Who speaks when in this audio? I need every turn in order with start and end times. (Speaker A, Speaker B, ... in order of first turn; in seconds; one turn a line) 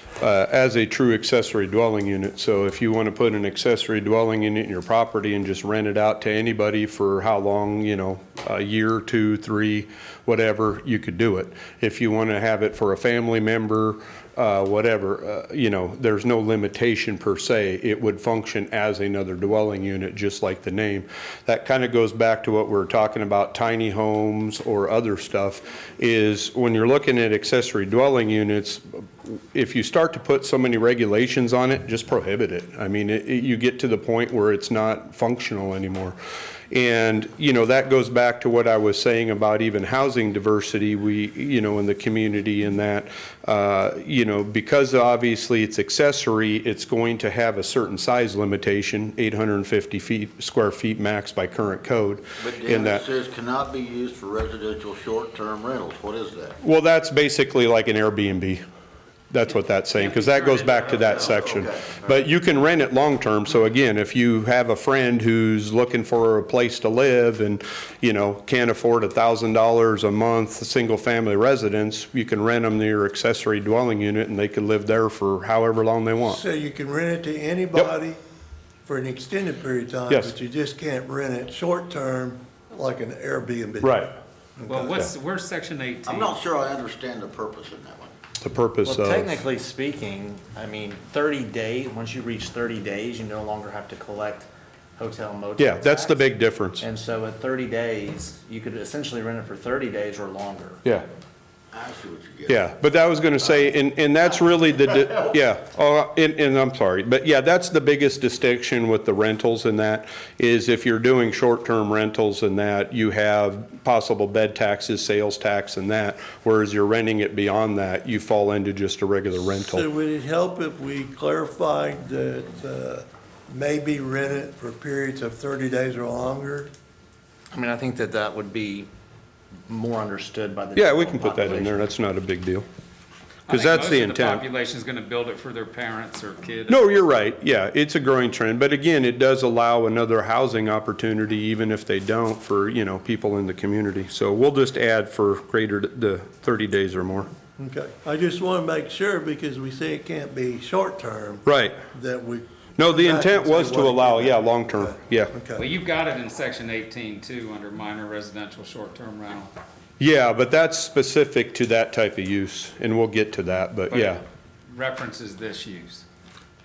Speaker A: 0.2-36.2
Speaker A: 36.7-53.1
Speaker B: 52.4-56.6
Speaker A: 56.6-58.6
Speaker A: 59.3-76.4
Speaker C: 59.9-61.6
Speaker B: 61.0-62.2
Speaker D: 76.2-78.2
Speaker D: 78.8-85.1
Speaker A: 80.1-80.3
Speaker A: 83.8-84.1
Speaker C: 84.7-86.3
Speaker B: 86.1-88.2
Speaker A: 88.4-89.4
Speaker E: 88.8-96.3
Speaker A: 95.6-96.8
Speaker E: 96.8-100.8
Speaker B: 101.7-102.7
Speaker A: 102.5-119.9
Speaker D: 119.5-126.7
Speaker E: 127.5-128.9
Speaker E: 129.7-131.8
Speaker A: 130.8-132.7
Speaker C: 133.5-136.9
Speaker A: 133.5-134.4
Speaker A: 136.7-147.3
Speaker D: 147.6-155.7
Speaker A: 151.4-151.8
Speaker A: 152.8-155.3
Speaker C: 155.6-159.5
Speaker A: 160.0-164.2
Speaker C: 163.9-166.1